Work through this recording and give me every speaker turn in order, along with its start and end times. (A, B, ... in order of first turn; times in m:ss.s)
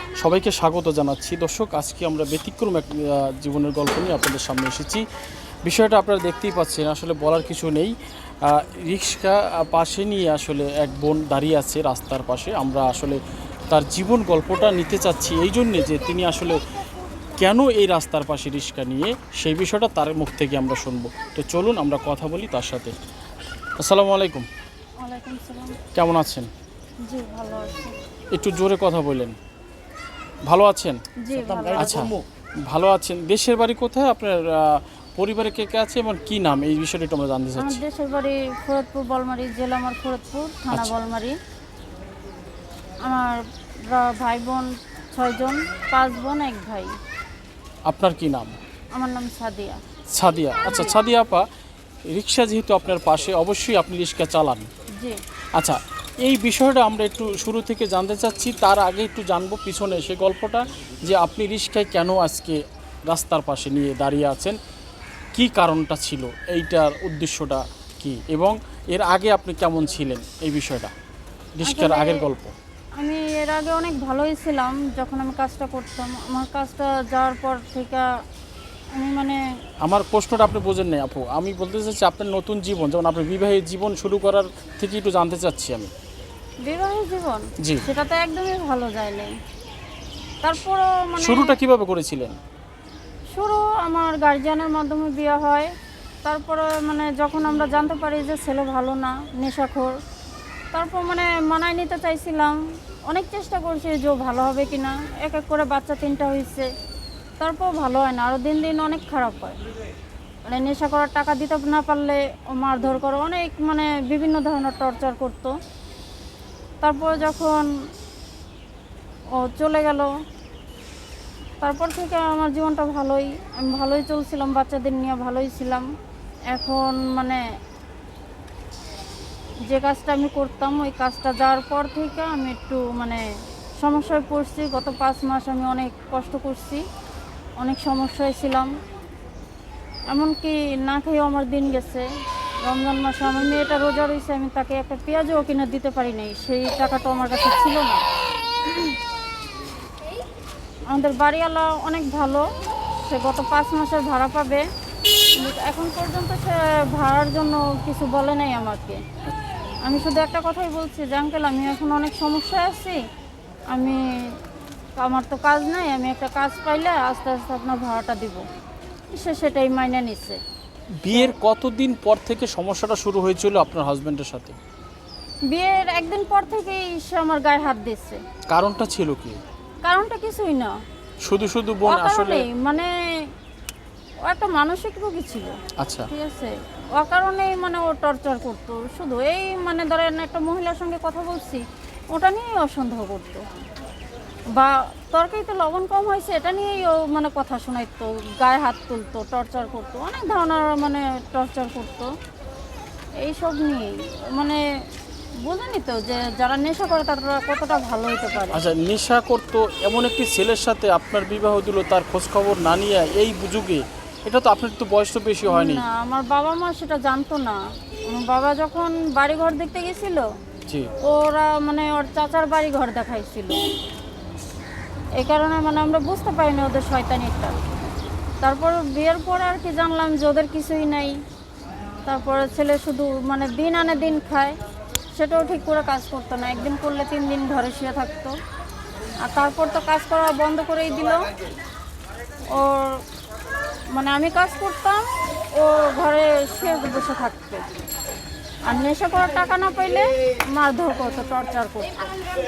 0:00.2-0:05.0 A
0:05.7-0:07.9 A
0:08.4-0:16.6 A
0:17.4-0:22.9 A
0:23.8-0:24.5 A
0:25.0-0:25.8 B
0:25.9-0:26.5 A
0:27.0-0:28.0 B
0:28.3-0:29.4 A
0:30.5-0:31.0 A
0:31.2-0:32.1 B
0:31.7-0:32.2 A
0:32.7-0:37.8 A
0:37.6-0:41.4 B
0:43.0-0:46.9 B
0:47.9-0:48.6 A
0:49.0-0:49.8 B
0:50.1-0:51.5 A
0:50.7-0:51.0 B
0:52.1-0:54.7 A
0:55.6-1:04.6 A
1:05.4-1:10.9 A
1:11.6-1:12.5 A
1:11.6-1:12.3 B
1:13.0-1:18.1 B
1:19.0-1:19.4 B
1:19.8-1:25.9 A
1:26.6-1:29.3 B
1:27.6-1:27.8 A
1:30.4-1:31.6 B
1:31.2-1:32.4 A
1:33.3-1:35.7 B
1:36.2-1:40.0 B
1:40.7-1:46.7 B
1:47.4-1:49.6 B
1:50.5-1:55.5 B
1:56.8-1:57.7 B
1:59.4-2:00.1 B
2:01.6-2:05.9 B
2:06.5-2:07.4 B
2:09.7-2:13.2 B
2:13.8-2:16.8 B
2:17.6-2:18.7 B
2:20.1-2:22.1 B
2:22.6-2:28.0 B
2:30.9-2:32.5 B
2:33.0-2:34.6 B
2:35.4-2:39.0 B
2:39.8-2:43.0 B
2:43.7-2:44.0 B
2:45.0-2:48.4 B
2:49.1-2:50.4 B
2:51.0-2:54.6 A
2:55.5-2:58.2 B
2:58.5-2:59.4 A
2:59.8-3:00.8 B
3:01.3-3:02.5 A
3:01.9-3:03.3 B
3:04.3-3:05.6 B
3:05.8-3:06.1 A
3:06.1-3:11.6 B
3:12.1-3:13.4 B
3:14.6-3:22.1 B
3:23.2-3:24.6 B
3:25.4-3:28.6 B
3:28.5-3:35.8 A
3:35.5-3:40.2 B
3:41.1-3:43.6 B
3:45.2-3:47.6 B
3:48.4-3:51.2 B
3:52.1-3:54.6 B
3:55.2-3:58.3 B
3:59.2-4:01.2 B
4:02.5-4:03.0 B
4:03.9-4:07.6 B
4:08.7-4:12.1 B